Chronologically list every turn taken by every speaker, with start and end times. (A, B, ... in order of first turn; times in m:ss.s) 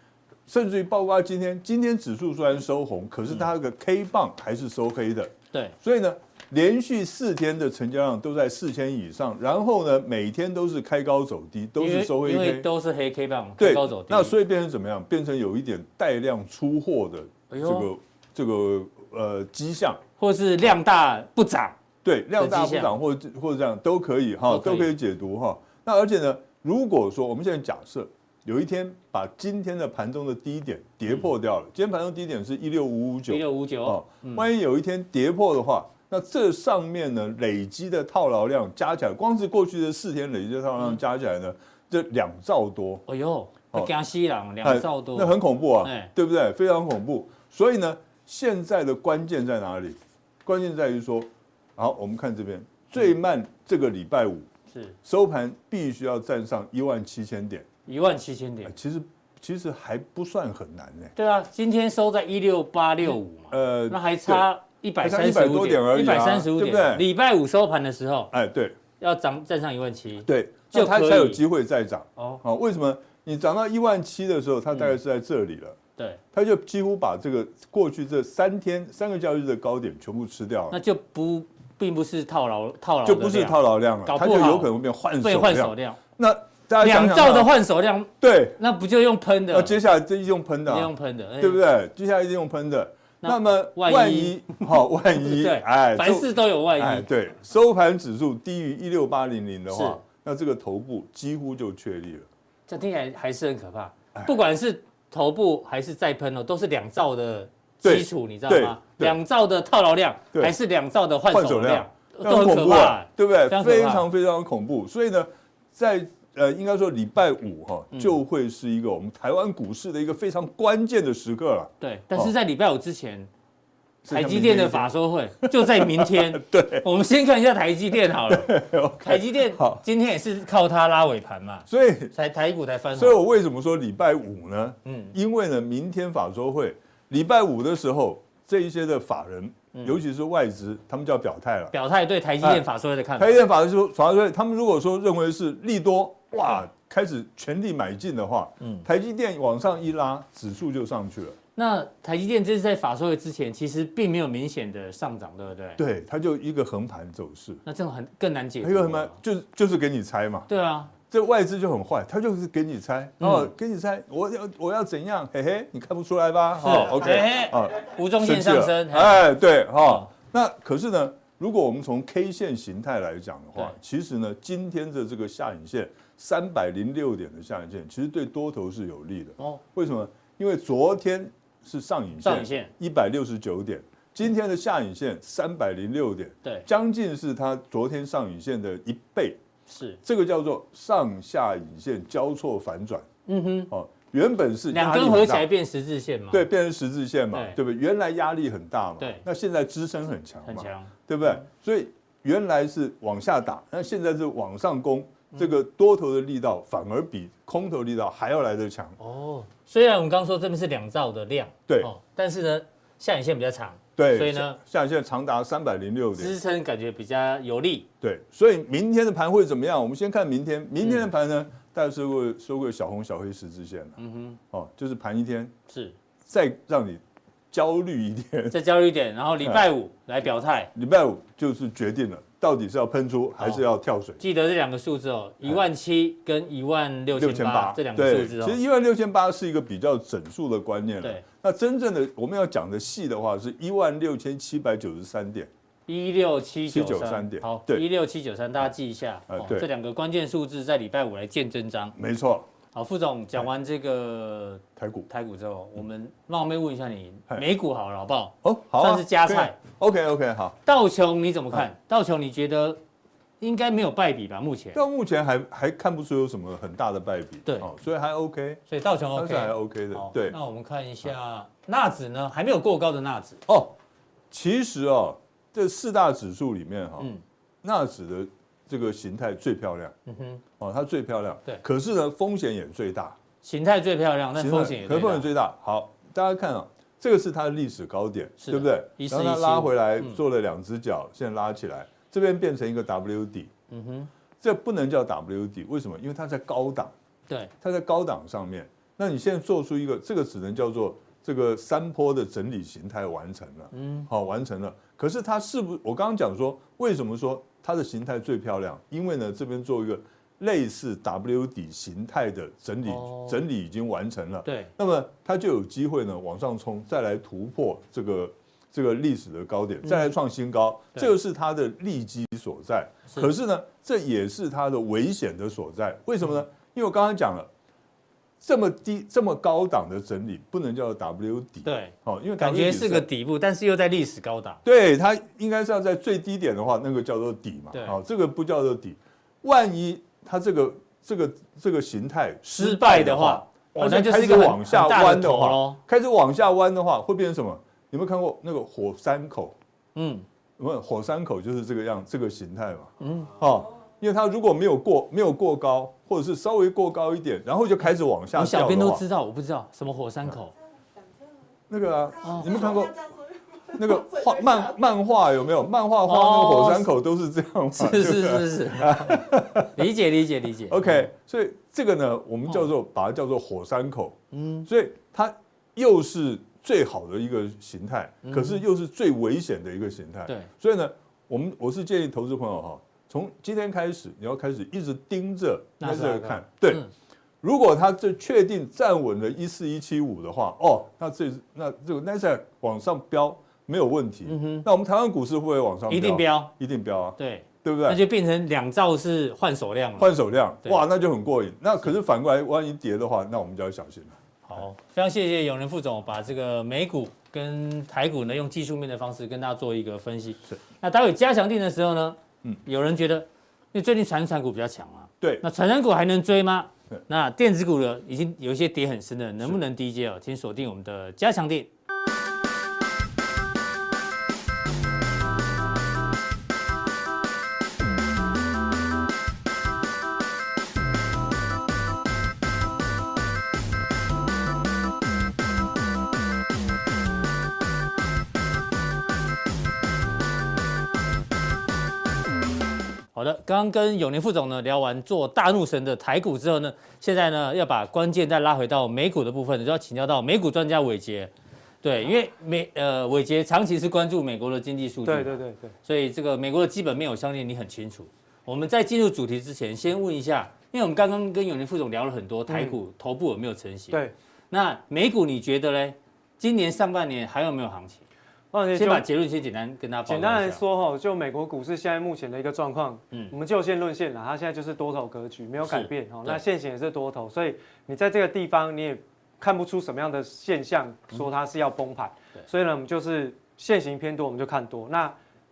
0:00.5-0:12.7 A
0:11.8-0:14.4 B
0:13.6-0:20.0 A
0:17.5-0:17.9 B
0:20.2-0:21.8 B
0:22.0-0:43.0 A
0:22.4-0:22.9 B
0:24.5-0:24.9 B
0:33.3-0:34.5 B
0:43.1-0:46.1 B
0:44.6-0:54.5 A
0:55.0-0:57.7 A
0:57.9-0:58.8 B
0:58.6-1:01.1 A
1:01.2-1:08.3 B
1:03.5-1:04.5 A
1:05.0-1:07.0 A
1:08.3-1:08.8 A
1:09.0-1:11.4 B
1:10.2-1:15.8 A
1:16.3-1:20.8 A
1:20.7-1:26.0 B
1:23.0-1:27.5 A
1:26.8-1:29.8 B
1:28.2-1:28.6 A
1:29.5-1:42.3 A
1:30.7-1:31.6 B
1:33.2-1:34.7 B
1:35.2-1:37.1 B
1:39.7-1:40.0 B
1:42.7-1:54.1 B
1:47.8-1:49.2 A
1:51.3-2:02.3 A
2:01.8-2:03.3 B
2:04.0-2:06.9 A
2:04.1-2:13.2 B
2:08.3-2:09.8 A
2:11.7-2:12.1 A
2:13.0-2:21.7 A
2:14.8-2:15.1 B
2:19.7-2:20.0 B
2:21.7-2:23.4 B
2:23.2-2:31.4 A
2:28.6-2:28.9 B
2:31.6-2:35.8 B
2:35.8-2:37.6 A
2:37.6-2:39.2 B
2:38.6-2:40.5 A
2:40.5-2:40.9 B
2:41.1-3:09.4 A
2:43.2-2:43.5 B
2:46.6-2:49.2 B
3:02.2-3:02.7 B
3:09.7-3:10.0 B
3:10.0-3:13.1 A
3:13.3-3:13.7 B
3:13.7-3:15.5 A
3:14.7-3:16.5 B
3:16.3-3:29.0 A
3:17.3-3:17.6 B
3:20.5-3:21.4 B
3:29.0-3:34.6 B
3:34.0-3:36.4 A
3:36.2-3:37.9 B
3:38.0-3:44.0 A
3:44.0-3:44.4 B
3:44.5-3:45.5 A
3:45.7-3:46.0 B
3:46.3-3:48.6 A
3:48.5-3:50.7 B
3:50.7-3:54.2 A
3:54.2-3:58.6 B
3:57.2-4:05.5 A
4:05.9-4:12.0 B
4:06.7-4:07.8 A
4:09.3-4:09.7 A
4:12.0-4:12.5 A
4:12.7-4:19.6 B
4:14.8-4:15.1 A
4:18.4-4:20.6 A
4:20.6-4:22.8 B
4:23.4-4:24.8 B
4:24.7-4:28.6 A
4:28.7-4:33.4 B
4:29.1-4:30.4 A
4:33.5-4:33.7 A
4:34.3-4:37.1 A
4:37.6-4:40.0 A
4:40.1-4:40.4 B
4:40.6-4:43.2 A
4:43.4-4:45.3 B
4:44.4-4:53.5 A
4:48.4-4:50.2 B
4:53.7-4:54.1 B
4:54.4-4:56.9 A
4:57.6-5:27.5 A
5:03.7-5:04.1 B
5:12.9-5:13.4 B
5:14.4-5:14.7 B
5:28.4-5:33.1 A
5:31.6-5:34.6 B
5:34.6-5:49.6 A
5:37.7-5:38.0 B
5:42.6-5:45.8 B
5:50.0-5:50.2 B
5:50.6-5:59.0 A
5:53.0-5:53.3 B
5:58.3-6:00.6 B
6:01.7-6:09.9 A
6:02.2-6:02.6 B
6:06.1-6:06.9 B
6:07.8-6:11.1 B
6:10.7-6:26.8 A
6:14.3-6:14.7 B
6:18.2-6:18.6 B
6:25.8-6:26.9 B
6:27.4-6:38.0 A
6:34.3-6:34.7 B
6:35.9-6:36.5 B
6:37.2-6:40.1 B
6:40.0-6:44.2 A
6:44.4-7:01.7 B
7:23.2-7:31.3 B
7:31.8-7:44.0 B
7:35.0-7:35.7 C
7:42.5-7:42.8 C
7:44.5-7:48.0 B
7:48.5-7:49.1 C
7:48.8-7:50.6 B
7:50.1-8:05.2 C
7:55.7-7:56.4 B